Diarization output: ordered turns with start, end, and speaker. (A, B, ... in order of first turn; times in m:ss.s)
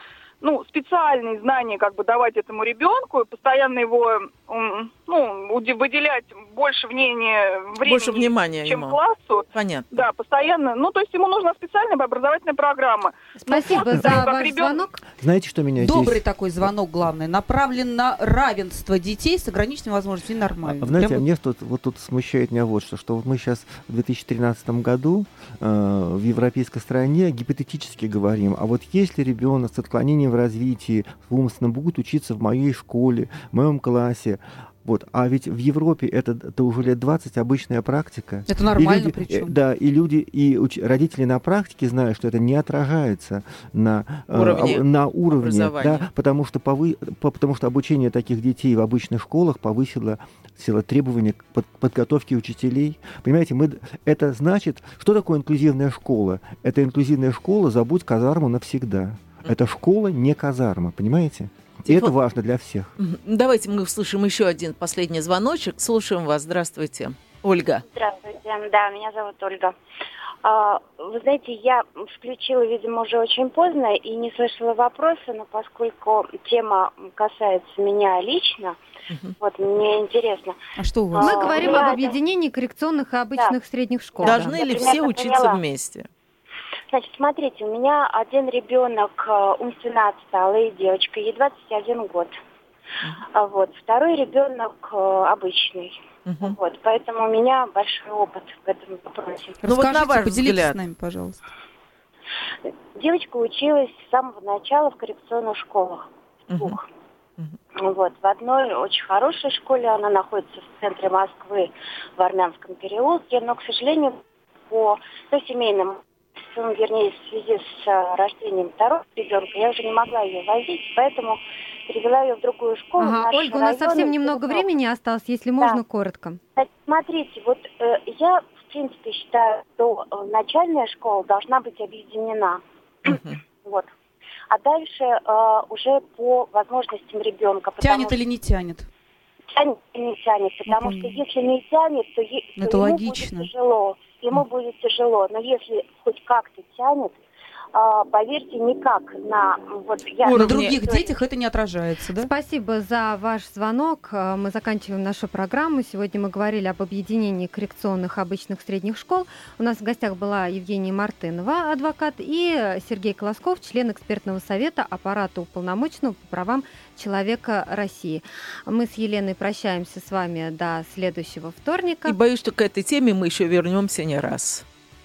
0:00.4-0:14.9 A
0:07.8-0:09.0 B
0:09.5-0:10.0 B
0:13.4-0:15.0 C
0:13.9-0:14.2 D
0:15.2-0:16.2 D
0:15.8-0:21.2 E
0:20.6-1:02.9 D
0:38.5-0:39.6 E
0:44.3-0:46.1 B
1:01.9-1:02.1 B
1:03.0-1:07.8 B
1:07.8-1:09.8 F
1:10.4-1:18.8 F
1:19.4-1:20.6 F
1:20.8-1:21.5 E
1:21.1-1:22.2 F
1:21.2-1:24.6 C
1:24.2-1:25.6 F
1:24.2-1:26.1 B
1:26.9-1:32.4 F
1:33.3-1:39.6 F
1:36.3-1:36.6 B
1:39.6-1:41.4 E
1:39.6-1:40.8 B
1:43.0-1:46.8 F
1:46.5-1:46.8 B
1:47.8-2:04.7 F
2:03.0-2:06.4 C
2:06.6-2:13.9 F
2:13.1-2:13.4 B
2:14.5-2:18.2 F
2:17.8-2:18.9 E
2:19.5-2:27.2 F
2:20.7-2:21.2 E
2:22.6-2:23.5 E
2:27.7-2:31.2 F
2:30.2-2:30.8 B
2:30.3-2:32.3 E
2:32.2-2:52.2 C
2:52.0-2:54.6 B